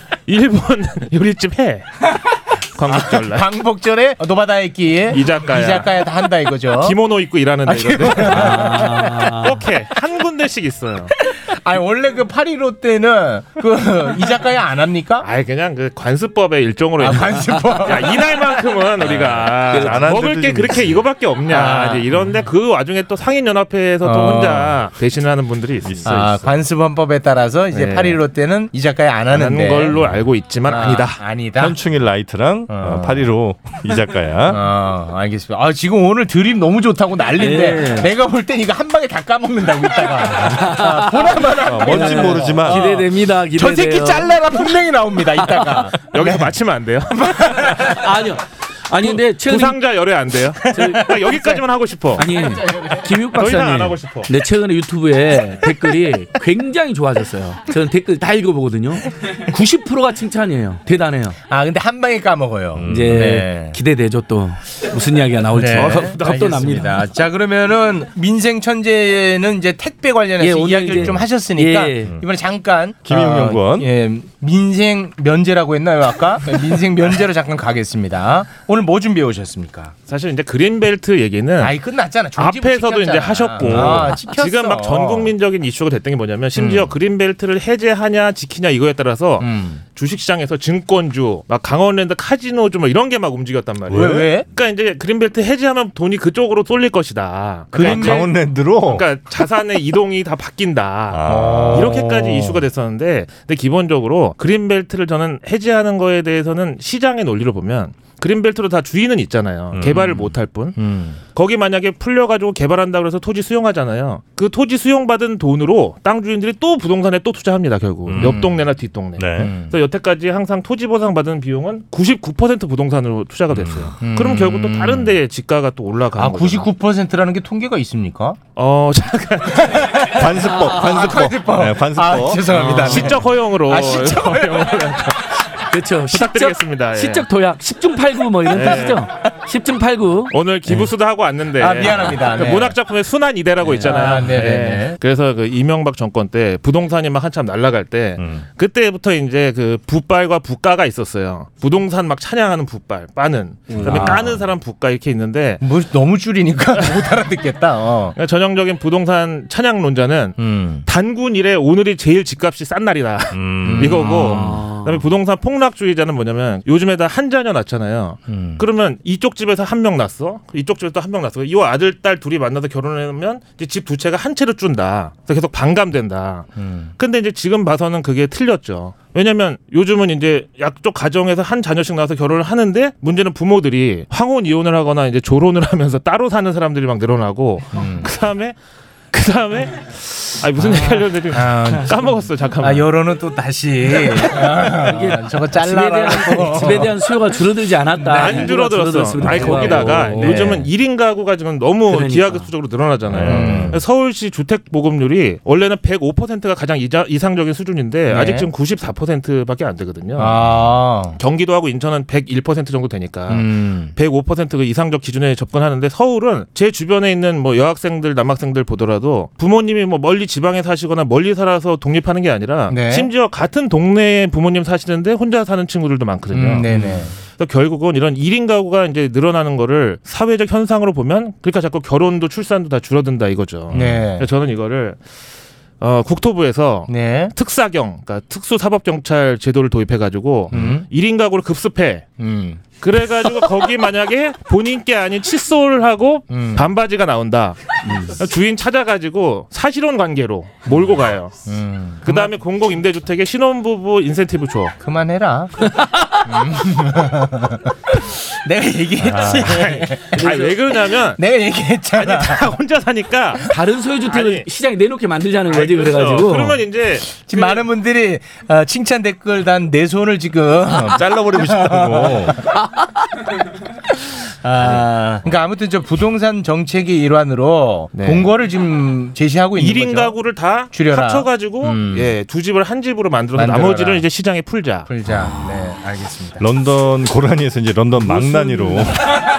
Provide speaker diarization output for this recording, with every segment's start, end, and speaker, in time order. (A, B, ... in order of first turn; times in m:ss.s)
0:00.3-0:02.1 A
0:02.8-0:03.5 A
0:02.8-0:07.0 B
0:05.1-0:05.9 A
0:06.8-0:08.8 A
0:07.7-0:09.2 B
0:08.2-0:09.6 C
0:09.4-0:11.1 A
0:11.5-0:15.3 B
0:15.2-0:26.4 A
0:17.0-0:18.5 B
0:19.0-0:21.1 D
0:21.5-0:22.1 B
0:24.0-0:24.8 B
0:25.8-0:26.4 D
0:26.0-0:30.0 B
0:27.7-0:28.2 A
0:29.3-0:31.2 A
0:30.7-0:31.8 B
0:31.6-0:34.6 D
0:32.7-0:33.3 B
0:34.5-0:46.5 B
0:37.4-0:38.1 C
0:40.4-0:44.6 C
0:41.7-0:43.0 D
0:46.1-0:47.9 A
0:47.1-0:47.9 B
0:47.8-0:49.8 C
0:49.0-0:52.3 A
0:50.7-0:51.3 C
0:50.8-0:51.4 B
0:52.2-1:01.4 C
0:52.3-0:53.2 B
0:53.4-0:54.3 A
1:01.5-1:03.8 B
1:02.8-1:03.3 D
1:02.8-1:07.0 C
1:05.5-1:19.9 B
1:05.8-1:06.3 A
1:10.4-1:12.1 C
1:13.0-1:13.9 D
1:20.1-1:21.8 A
1:21.6-1:25.3 B
1:22.4-1:50.8 A
1:23.6-1:24.2 D
1:26.6-1:26.9 B
1:29.4-1:29.8 B
1:33.9-1:34.4 B
1:33.9-1:34.3 D
1:37.7-1:38.3 B
1:37.8-1:39.0 D
1:41.1-1:42.2 D
1:41.3-1:42.4 B
1:49.7-1:50.3 D
1:50.8-1:51.2 B
1:51.3-2:06.7 A
1:58.1-1:58.5 D
1:58.2-1:58.6 B
1:59.2-1:59.5 D
1:59.4-1:59.7 B
2:03.5-2:04.0 D
2:04.0-2:05.1 B
2:06.2-2:08.4 B
2:08.6-2:10.2 A
2:09.6-2:15.2 B
2:10.1-2:12.8 D
2:12.5-2:13.1 C
2:12.7-2:15.5 A
2:15.7-2:20.3 C
2:16.1-2:17.3 A
2:18.5-2:19.1 A
2:20.3-2:35.6 A
2:21.6-2:22.8 B
2:23.6-2:24.2 C
2:23.8-2:25.0 B
2:28.2-2:28.4 D
2:33.8-2:34.4 B
2:33.8-2:34.4 D
2:35.6-2:38.2 B
2:36.8-2:37.1 A
2:38.2-3:08.6 A
2:40.4-2:40.8 B
2:43.3-2:44.0 D
2:43.6-2:44.6 B
2:44.0-2:45.0 C
2:48.3-2:48.6 B
2:56.6-2:56.9 B
3:07.7-3:08.1 B
3:09.1-3:12.9 A
3:10.6-3:17.0 B
3:14.7-3:20.4 C
3:18.0-3:18.6 B
3:18.1-3:30.4 A
3:19.2-3:20.7 B
3:21.9-3:22.5 C
3:23.1-3:23.8 D
3:23.2-3:23.8 B
3:28.1-3:28.5 B
3:30.2-3:31.2 B
3:31.2-3:46.7 A
3:33.3-3:33.9 B
3:42.7-3:43.1 B
3:46.3-3:47.1 B
3:47.4-3:55.0 A
3:53.7-3:54.3 B
3:55.8-4:02.1 A
3:56.9-3:57.3 B
4:00.5-4:00.8 B
4:02.2-4:02.6 B
4:02.8-4:11.4 A
4:06.3-4:06.7 B
4:07.9-4:08.1 C
4:11.5-4:12.3 B
4:12.0-4:14.8 A
4:14.8-4:15.7 B
4:15.8-4:16.2 C
4:16.2-4:20.2 B
4:19.2-4:19.6 D
4:19.2-4:21.2 A
4:20.2-4:20.6 C
4:21.2-4:22.5 B
4:21.9-4:23.5 A
4:23.5-4:26.6 C
4:24.1-4:24.5 A
4:25.5-4:27.6 A
4:27.2-4:32.4 B
4:30.7-4:32.4 D
4:32.6-4:32.9 C
4:34.4-4:40.2 B
4:38.0-4:38.3 A
4:39.6-4:44.9 A
4:40.7-4:42.1 B
4:43.4-4:44.0 B
4:44.9-4:46.4 B
4:46.4-4:49.2 D
4:48.2-4:48.8 C